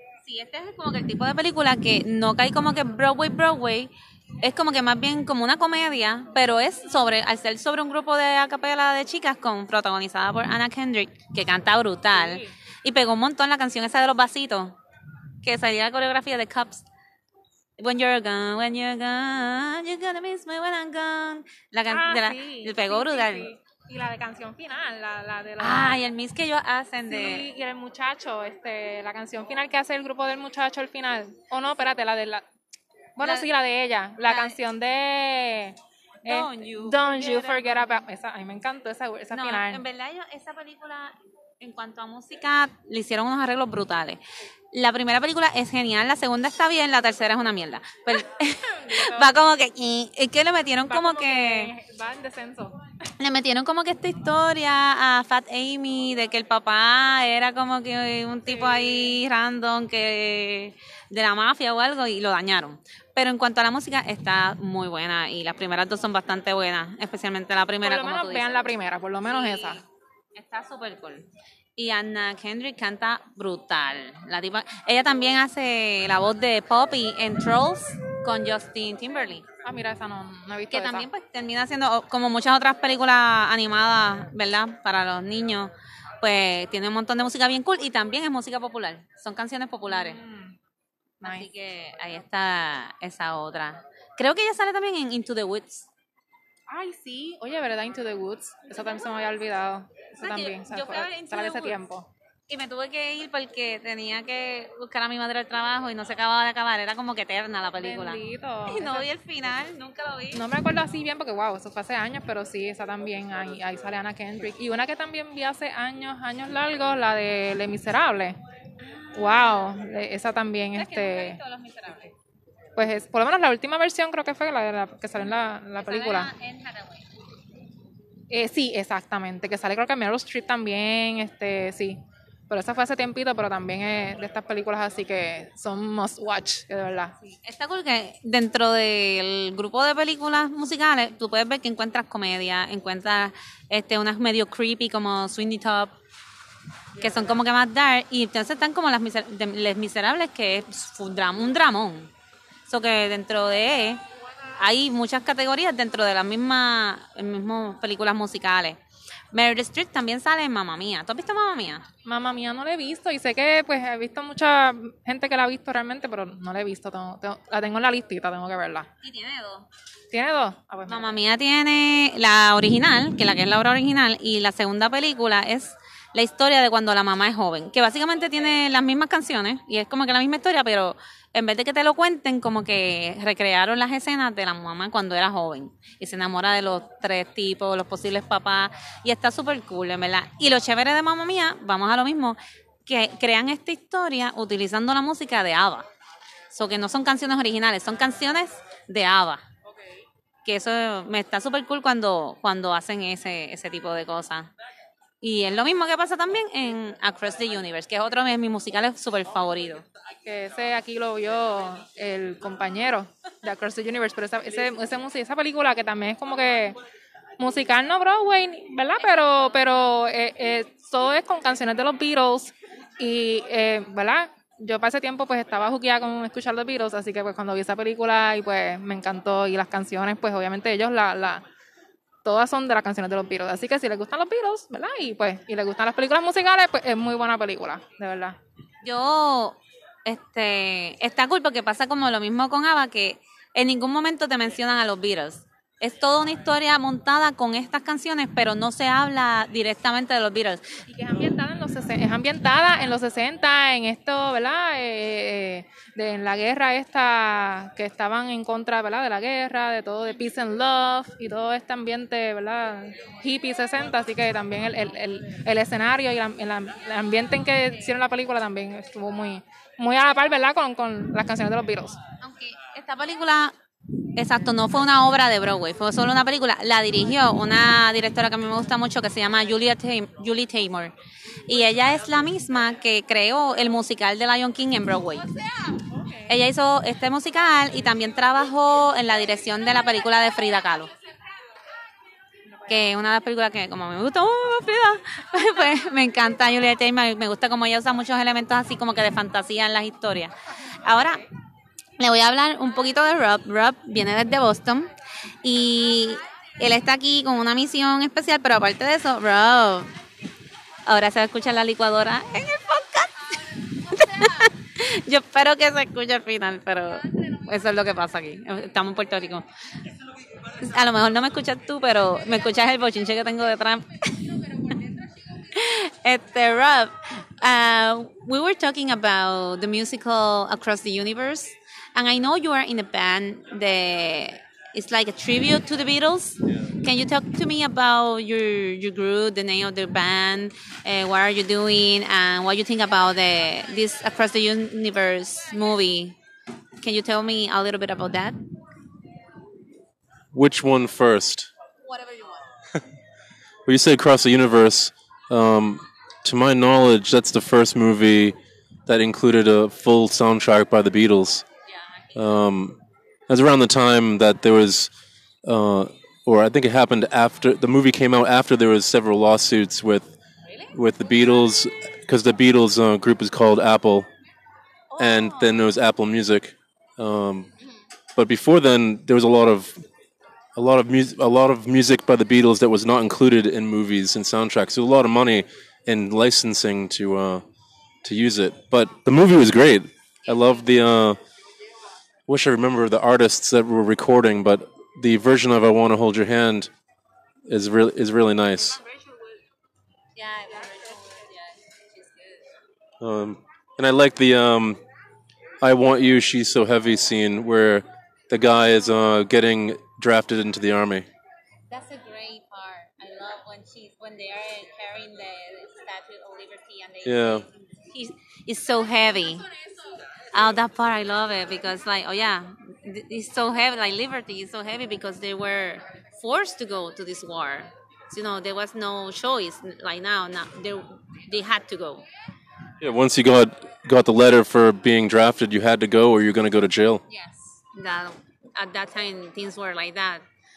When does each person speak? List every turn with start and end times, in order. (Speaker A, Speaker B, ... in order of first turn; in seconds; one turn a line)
Speaker A: 0.3-14.8
Speaker B: 12.1-12.5
Speaker A: 15.4-16.9
Speaker A: 17.8-23.5
Speaker B: 21.9-26.0
Speaker A: 25.6-27.5
Speaker B: 27.1-32.4
Speaker B: 33.2-39.8
Speaker A: 33.2-33.5
Speaker A: 34.2-34.6
Speaker A: 36.2-37.9
Speaker A: 39.3-44.2
Speaker A: 44.7-51.7
Speaker B: 48.7-49.3
Speaker B: 50.9-52.8
Speaker A: 53.2-68.7
Speaker B: 58.5-59.2
Speaker B: 67.8-69.8
Speaker A: 69.3-69.8
Speaker A: 70.3-71.3
Speaker A: 71.8-79.5
Speaker B: 79.6-81.1
Speaker A: 80.7-90.2
Speaker B: 89.9-90.6
Speaker B: 91.2-91.5
Speaker A: 91.2-95.9
Speaker B: 96.7-102.1
Speaker A: 100.2-101.8
Speaker A: 102.5-110.4
Speaker B: 107.8-109.1
Speaker B: 110.3-118.4
Speaker A: 118.8-119.7
Speaker B: 119.2-121.4
Speaker A: 120.8-122.1
Speaker B: 122.8-126.3
Speaker A: 125.8-127.1
Speaker B: 128.3-137.2
Speaker A: 137.2-145.9
Speaker A: 147.0-152.1
Speaker A: 152.7-154.0
Speaker A: 154.6-158.8
Speaker A: 159.3-161.8
Speaker B: 162.1-168.9
Speaker A: 169.0-169.7
Speaker B: 170.1-171.2
Speaker A: 170.9-195.9
Speaker A: 196.5-199.4
Speaker A: 200.4-204.5
Speaker A: 205.2-209.8
Speaker B: 210.2-216.8
Speaker B: 217.4-231.4
Speaker B: 232.2-238.4
Speaker A: 238.8-250.7
Speaker B: 250.9-272.0
Speaker A: 272.2-273.6
Speaker A: 274.2-280.9
Speaker A: 281.5-285.3
Speaker B: 285.7-286.3
Speaker A: 286.3-290.9
Speaker A: 292.7-301.2
Speaker A: 302.0-304.9
Speaker A: 305.4-309.9
Speaker A: 310.9-319.5
Speaker A: 320.5-324.8
Speaker A: 325.4-346.2
Speaker A: 346.8-348.4
Speaker C: 350.3-351.5
Speaker A: 352.0-352.4
Speaker C: 353.7-358.4
Speaker C: 358.9-361.5
Speaker C: 362.1-364.9
Speaker C: 365.4-370.2
Speaker C: 370.7-374.1
Speaker A: 374.9-375.5
Speaker C: 375.0-377.5
Speaker C: 378.2-379.8
Speaker C: 380.6-387.4
Speaker C: 388.0-391.2
Speaker C: 392.3-396.7
Speaker C: 397.5-398.8
Speaker A: 400.2-402.4
Speaker C: 403.0-404.8
Speaker C: 405.6-411.1
Speaker A: 411.7-419.5
Speaker C: 417.1-417.4
Speaker A: 420.3-432.0
Speaker C: 432.8-437.0
Speaker A: 437.1-440.2